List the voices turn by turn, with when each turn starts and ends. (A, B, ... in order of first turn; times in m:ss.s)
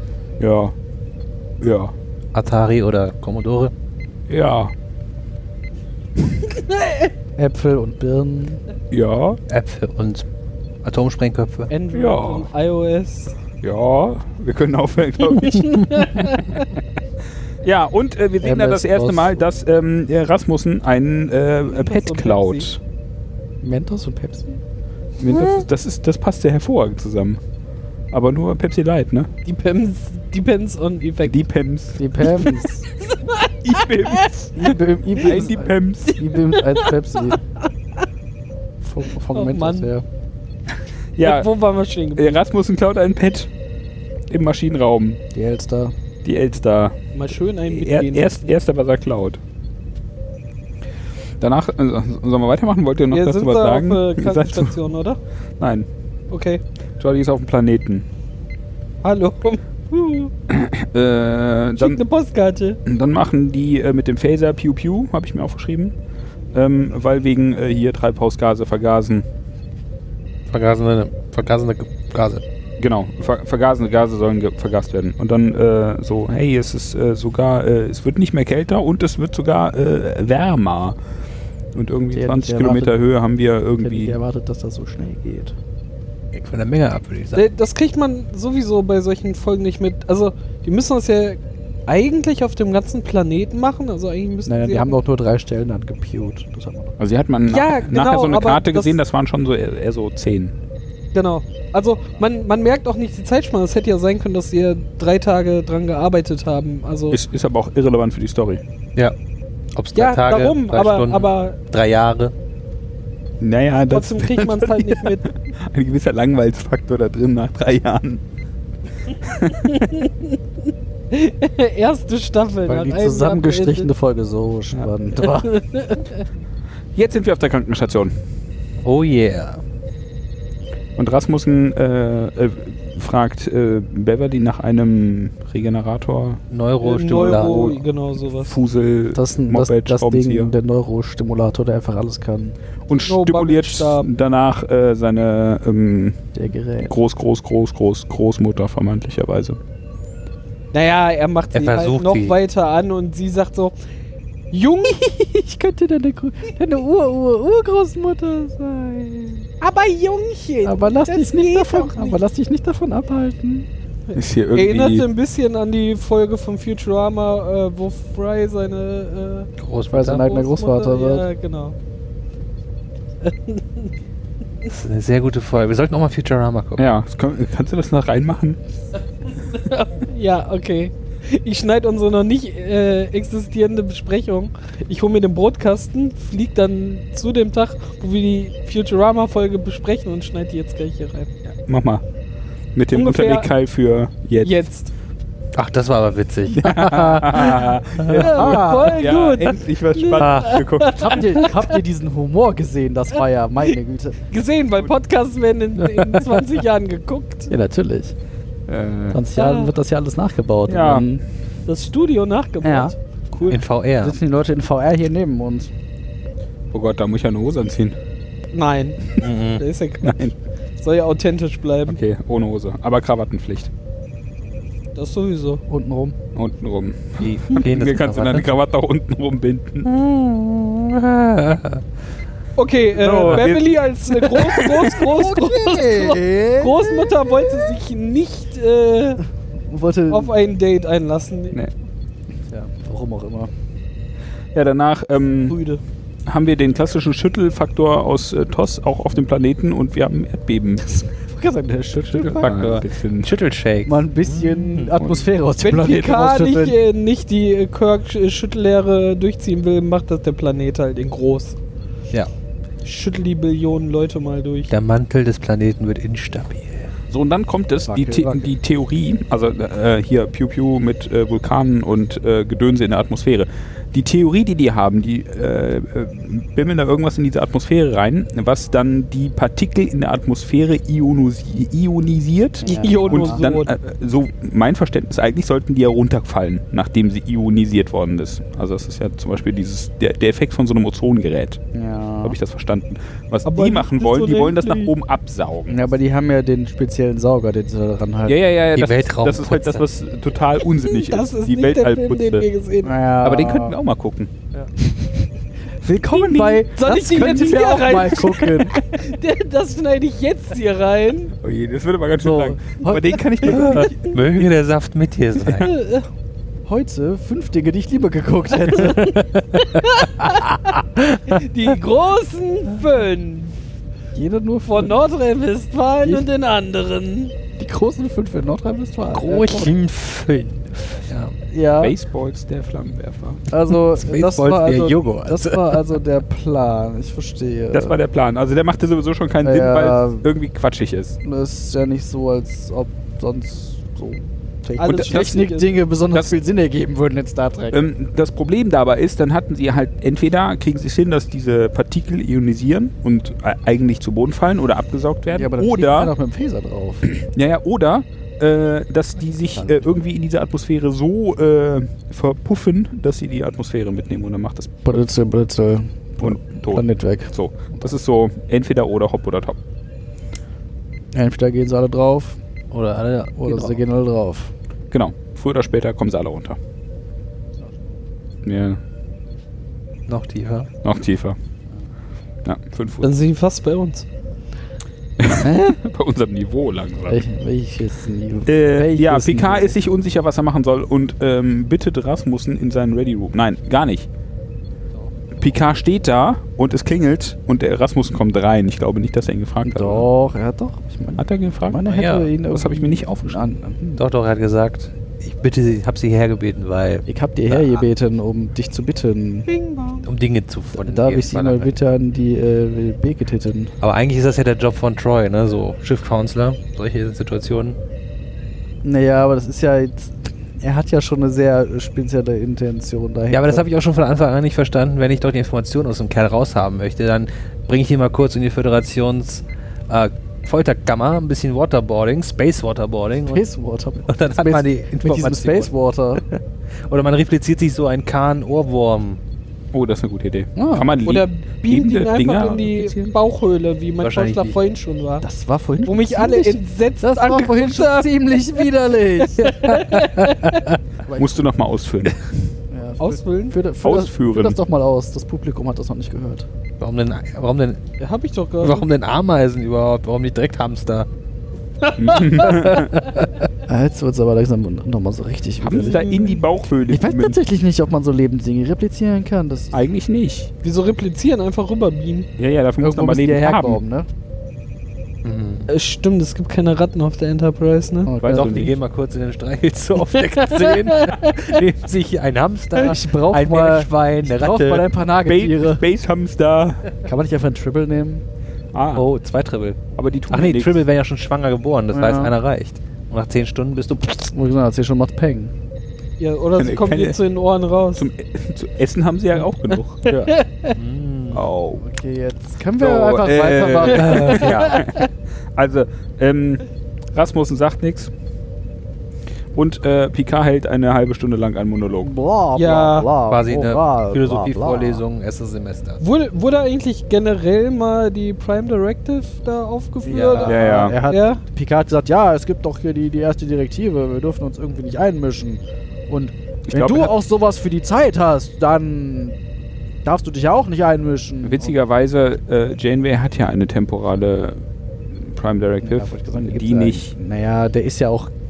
0:00.4-0:00.7 A
0:01.6-0:01.9 A
0:02.3-0:03.7 B
0:04.3-0:04.7 A
0:06.3-0:07.1 C
0:07.4-0:08.6 D
0:08.9-0:09.4 A
0:09.5-0:10.2 B
0:10.8-0:11.7 B
0:11.7-0:13.3 C
0:11.9-0:12.5 A
0:13.6-0:16.3 A
0:15.4-0:16.7 C
0:17.6-0:22.8 A
0:18.4-0:19.4 D
0:21.7-0:22.7 C
0:23.6-0:24.6 D
0:25.2-0:27.4 A
0:28.1-0:29.3 A
0:29.4-0:31.5 C
0:31.2-0:32.0 A
0:32.0-0:32.8 D
0:32.4-0:34.4 C
0:33.6-0:34.6 A
0:34.6-0:37.4 D
0:35.2-0:36.2 A
0:36.1-0:37.4 C
0:38.8-0:40.0 D
0:39.3-0:39.9 C
0:41.2-0:41.5 A
0:41.2-0:42.4 C
0:42.2-0:43.5 A
0:44.3-0:45.2 A
0:45.3-0:45.9 D
0:46.2-0:47.0 A
0:47.1-0:48.5 C
0:47.6-0:49.4 A
0:51.4-0:54.8 A
0:53.1-0:55.2 C
0:55.6-0:55.9 A
0:56.3-0:56.6 C
0:57.0-0:58.0 A
0:59.0-1:00.3 C
1:00.5-1:02.0 A
1:01.8-1:02.8 C
1:02.8-1:05.9 A
1:06.5-1:09.2 A
1:10.5-1:12.4 B
1:12.8-1:21.0 A
1:21.7-1:24.2 A
1:22.1-1:23.0 D
1:23.8-1:25.6 D
1:26.3-1:27.5 B
1:27.4-1:35.0 C
1:34.4-1:37.0 D
1:37.0-1:40.5 A
1:37.5-1:39.0 C
1:41.1-1:47.2 C
1:47.1-1:48.6 A
1:49.7-1:52.3 B
1:49.9-1:51.6 C
1:53.4-1:58.2 A
1:53.9-1:55.3 C
1:59.2-2:00.0 A
1:59.7-2:00.4 C
2:01.1-2:03.9 C
2:02.6-2:05.6 D
2:05.2-2:06.2 C
2:06.9-2:08.2 A
2:08.8-2:09.6 B
2:11.0-2:16.4 A
2:16.5-2:17.7 B
2:16.8-2:18.6 C
2:17.1-2:17.8 A
2:18.4-2:20.5 A
2:19.1-2:22.6 D
2:22.9-2:26.2 A
2:22.9-2:24.1 C
2:26.3-2:26.9 D
2:26.8-2:29.6 A
2:30.7-2:33.7 C
2:31.5-2:32.4 B
2:34.5-2:35.1 C
2:35.0-2:39.5 D
2:39.6-2:42.2 C
2:40.6-2:43.7 D
2:44.1-2:49.5 C
2:44.1-2:45.1 A
2:49.6-2:50.3 B
2:49.9-2:51.3 D
2:50.2-2:51.7 C
2:53.2-2:53.9 C
2:54.6-2:56.8 B
2:56.8-2:58.6 A
2:59.4-3:11.3 C
3:11.4-3:12.0 A
3:12.7-3:14.6 A
3:12.9-3:13.5 C
3:14.4-3:14.9 C
3:15.5-3:18.1 B
3:16.5-3:21.4 A
3:18.1-3:21.8 C
3:18.2-3:19.0 D
3:20.2-3:20.6 B
3:20.9-3:24.2 D
3:24.3-3:27.5 C
3:25.8-3:26.4 B
3:27.5-3:28.1 D
3:28.7-3:29.2 A
3:29.1-3:31.2 D
3:29.3-3:29.7 C
3:30.7-3:31.1 A
3:31.7-3:33.6 C
3:32.6-3:32.9 D
3:33.5-3:34.2 B
3:34.0-3:35.7 D
3:36.7-3:38.0 A
3:38.5-3:42.0 C
3:39.2-3:39.6 B
3:40.0-3:40.3 A
3:41.9-3:43.7 A
3:44.9-3:45.6 C
3:45.7-3:46.2 D
3:46.3-3:49.9 A
3:47.2-3:48.5 B
3:49.8-3:51.8 B
3:52.6-3:59.2 C
3:52.9-3:55.0 A
3:54.9-3:57.8 D
3:59.6-4:00.3 D
4:00.1-4:01.6 C
4:02.5-4:03.5 D
4:04.5-4:05.6 A
4:06.3-4:10.9 A
4:10.8-4:12.8 D
4:12.1-4:13.4 A
4:12.2-4:15.0 B
4:13.8-4:16.8 D
4:15.0-4:15.2 A
4:15.6-4:21.6 C
4:22.8-4:24.7 C
4:24.7-4:26.9 B
4:27.1-4:51.6 A
4:27.9-4:28.5 D
4:42.6-4:43.4 D
4:42.6-4:43.7 C
4:51.7-4:52.4 D
4:52.2-4:55.8 A
4:53.4-4:54.9 C
4:55.7-4:58.4 D
4:58.2-5:02.4 A
4:58.7-4:59.8 B
5:00.6-5:03.0 C
5:02.8-5:03.8 D
5:03.2-5:04.3 A
5:04.8-5:05.3 D
5:05.8-5:08.8 D
5:06.1-5:06.6 A
5:06.5-5:11.3 C
5:11.4-5:14.5 A
5:12.2-5:13.8 D
5:13.5-5:15.7 B
5:15.4-5:15.7 A
5:15.6-5:16.0 C
5:16.6-5:19.2 D
5:18.7-5:23.6 C
5:19.1-5:19.4 B
5:24.1-5:25.0 D
5:24.6-5:27.3 C
5:27.6-5:29.7 D
5:29.1-5:31.4 B
5:31.5-5:31.9 D
5:31.8-5:33.4 A
5:33.5-5:38.0 D
5:33.9-5:35.8 B
5:37.7-5:41.2 A
5:39.4-5:40.2 D
5:41.2-5:47.8 D
5:44.8-5:45.7 C
5:44.9-5:45.4 A
5:47.7-5:56.1 A
5:55.3-5:57.1 D
5:57.0-6:04.8 A
5:59.5-5:59.9 D
6:04.8-6:07.9 D
6:06.2-6:09.6 A
6:11.1-6:12.4 D
6:12.7-6:13.8 B
6:13.4-6:14.5 D
6:14.9-6:16.6 A
6:18.4-6:18.8 A
6:20.1-6:20.7 B
6:20.8-6:21.4 A
6:22.4-6:23.1 A
6:23.0-6:24.0 C
6:25.2-6:27.2 A
6:25.3-6:25.7 D
6:27.1-6:29.7 D
6:28.5-6:34.1 A
6:35.4-6:40.1 A
6:39.6-6:44.0 D
6:41.2-6:41.8 A
6:41.8-6:42.3 B
6:42.5-6:43.5 A
6:44.0-6:47.8 B
6:47.1-6:49.5 D
6:49.5-6:50.0 C
6:50.0-6:51.7 B
6:50.7-6:53.7 D
6:53.8-6:57.8 B
6:58.8-7:03.6 D
7:03.3-7:13.4 B
7:13.3-7:16.2 D
7:14.1-7:15.7 B
7:16.3-7:19.2 B
7:19.7-7:22.7 A
7:20.6-7:21.0 D
7:21.0-7:25.2 C
7:22.7-7:22.9 D
7:24.0-7:24.6 B
7:25.2-7:29.8 D
7:25.8-7:28.6 C
7:29.2-7:30.7 C
7:29.7-7:30.8 B
7:31.0-7:31.5 D
7:31.1-7:32.5 A
7:32.7-7:36.5 D
7:33.0-7:33.6 C
7:33.8-7:34.6 A
7:36.8-7:37.8 B
7:38.0-7:38.9 C
7:38.6-7:41.1 B
7:41.8-7:42.9 C
7:42.0-7:43.0 A
7:42.5-7:42.8 B
7:43.7-7:46.1 D
7:45.6-7:47.4 A
7:45.8-7:46.4 C
7:46.9-7:49.8 D
7:49.7-7:50.5 A
7:50.6-7:52.3 C
7:52.4-7:53.8 A
7:52.8-7:54.1 D
7:55.2-7:55.7 B
7:55.7-7:58.1 C
7:58.0-7:58.7 D
7:58.2-7:58.8 A
7:58.2-8:04.9 B
8:00.2-8:01.6 C
8:02.7-8:05.8 D
8:05.2-8:06.9 A
8:07.0-8:08.2 D
8:08.7-8:09.1 A
8:08.9-8:14.3 B
8:10.0-8:10.8 A
8:11.9-8:12.3 D
8:14.3-8:15.5 D
8:16.2-8:18.1 C
8:16.6-8:17.2 A
8:18.0-8:20.2 A
8:20.1-8:21.4 B
8:20.1-8:20.7 C
8:21.3-8:21.8 A
8:21.8-8:24.5 D
8:22.8-8:28.1 A
8:23.9-8:24.8 B
8:24.0-8:25.0 C
8:29.5-8:32.1 A
8:32.0-8:35.0 D
8:32.5-8:33.1 C
8:33.3-8:36.0 B
8:36.0-8:41.4 C
8:40.0-8:49.4 D
8:40.1-8:40.5 B
8:40.5-8:41.0 A
8:46.7-8:47.1 A
8:50.0-8:51.7 D
8:51.4-8:57.1 A
8:55.8-8:58.3 D